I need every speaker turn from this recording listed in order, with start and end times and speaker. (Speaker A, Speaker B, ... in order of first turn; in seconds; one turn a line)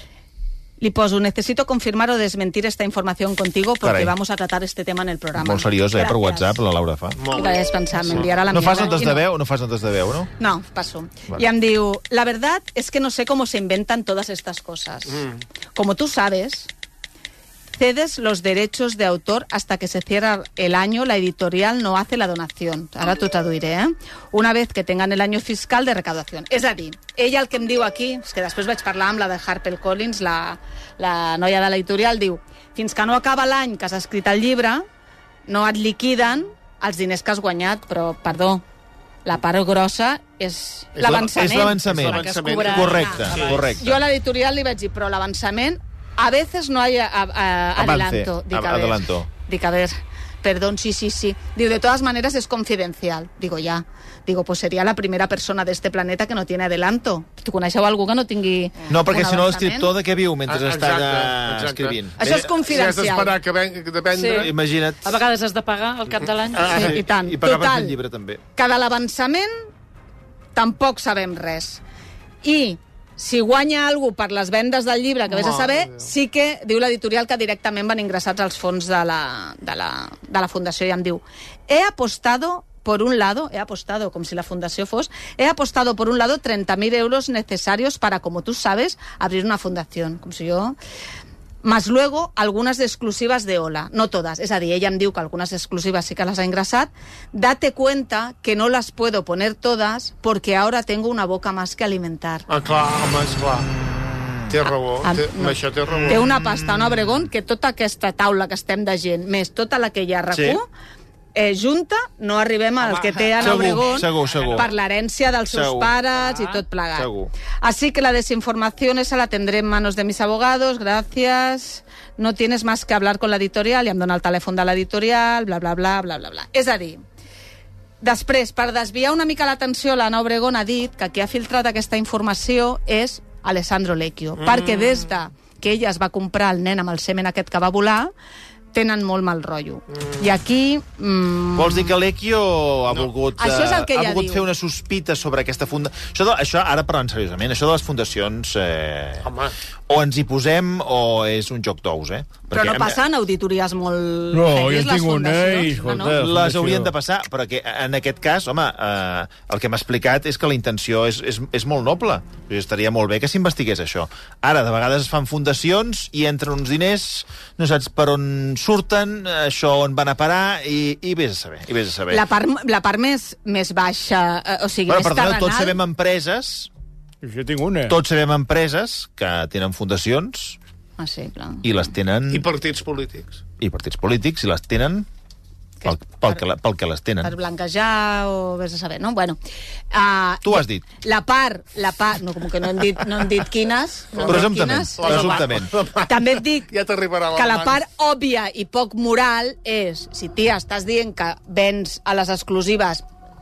Speaker A: 0.8-6.5
Speaker B: 3.8-4.1
Speaker B: 5.3-7.2
Speaker C: 7.2-8.9
Speaker A: 7.3-9.2
Speaker B: 8.5-10.3
Speaker A: 10.4-16.7
Speaker C: 15.1-15.4
Speaker A: 17.8-34.8
Speaker A: 35.5-38.6
Speaker A: 39.2-59.9
Speaker C: 41.0-43.7
Speaker B: 41.0-44.0
Speaker D: 42.4-43.4
Speaker B: 47.8-49.3
Speaker B: 58.9-62.5
Speaker C: 60.5-64.5
Speaker A: 62.2-63.3
Speaker D: 64.1-64.5
Speaker B: 64.3-65.1
Speaker D: 65.0-66.9
Speaker B: 66.5-68.4
Speaker A: 66.6-68.0
Speaker A: 68.5-69.5
Speaker A: 70.5-71.8
Speaker A: 72.4-90.8
Speaker C: 75.3-76.1
Speaker A: 91.6-102.5
Speaker C: 102.5-103.7
Speaker B: 104.0-104.6
Speaker C: 104.5-106.2
Speaker A: 105.0-110.7
Speaker B: 105.9-107.3
Speaker B: 110.3-110.6
Speaker A: 111.3-117.1
Speaker B: 113.4-114.7
Speaker D: 113.5-114.2
Speaker B: 115.5-115.9
Speaker D: 116.2-116.6
Speaker B: 116.9-117.3
Speaker A: 117.6-127.0
Speaker A: 128.0-138.1
Speaker C: 134.4-135.1
Speaker A: 138.7-141.9
Speaker C: 139.9-140.3
Speaker B: 141.6-149.3
Speaker A: 143.4-144.5
Speaker C: 149.2-149.5
Speaker B: 149.9-153.0
Speaker A: 152.5-156.2
Speaker E: 154.3-156.9
Speaker B: 156.1-172.2
Speaker A: 172.1-175.8
Speaker B: 174.9-176.7
Speaker E: 177.2-178.0
Speaker B: 177.9-180.6
Speaker A: 181.0-181.7
Speaker B: 181.6-182.5
Speaker C: 182.3-183.4
Speaker B: 183.6-185.1
Speaker A: 185.8-186.4
Speaker B: 185.8-187.3
Speaker A: 187.2-189.4
Speaker A: 189.9-195.5
Speaker B: 190.4-190.8
Speaker C: 194.1-197.8
Speaker B: 194.2-195.7
Speaker A: 196.0-196.7
Speaker A: 197.3-203.0